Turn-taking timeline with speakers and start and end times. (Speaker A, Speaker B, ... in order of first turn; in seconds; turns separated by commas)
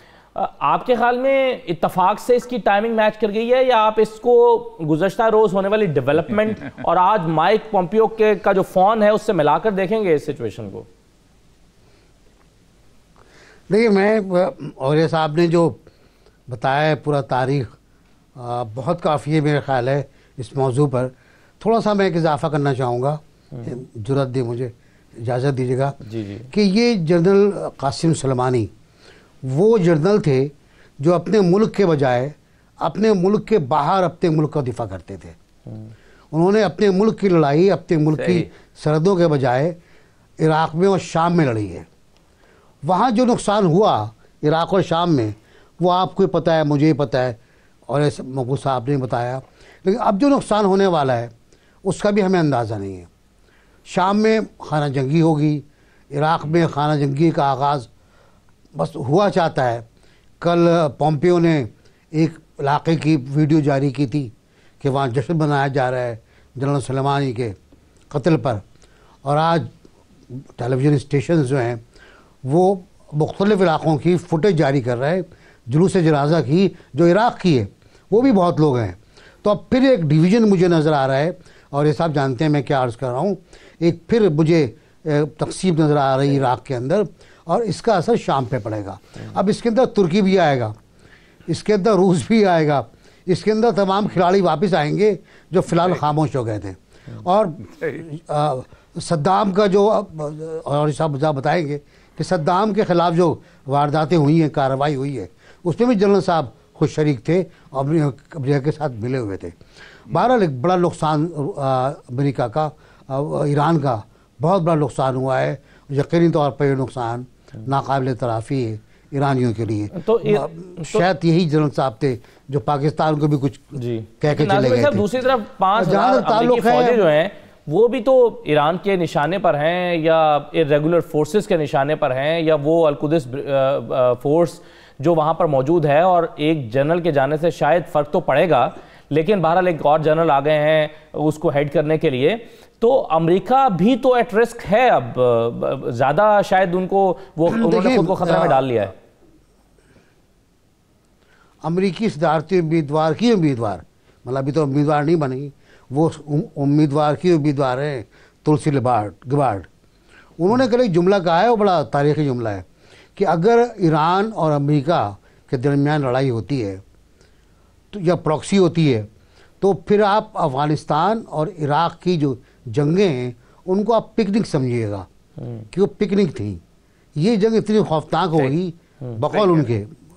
Speaker A: 0.3-10.9, Speaker B: 13.7-15.8, Speaker B: 16.5-17.7, Speaker B: 18.4-28.7, Speaker A: 26.0-26.5, Speaker B: 29.4-35.4, Speaker B: 36.3-39.8, Speaker A: 38.1-38.5, Speaker B: 40.4-41.9, Speaker B: 42.8-51.3, Speaker B: 51.8-53.1, Speaker B: 53.9-57.9, Speaker B: 58.7-59.8, Speaker B: 60.4-67.5, Speaker B: 68.1-68.6, Speaker B: 69.2-69.7, Speaker B: 70.3-71.8, Speaker B: 72.4-90.7, Speaker B: 91.5-109.5, Speaker B: 110.1-125.1, Speaker A: 119.9-121.0, Speaker A: 123.8-148.9, Speaker B: 125.8-127.0, Speaker B: 147.5-148.7, Speaker B: 151.6-159.7, Speaker B: 160.4-162.6, Speaker B: 163.2-166.8, Speaker B: 167.9-169.1, Speaker B: 169.6-175.1, Speaker B: 175.7-176.6, Speaker B: 177.2-179.9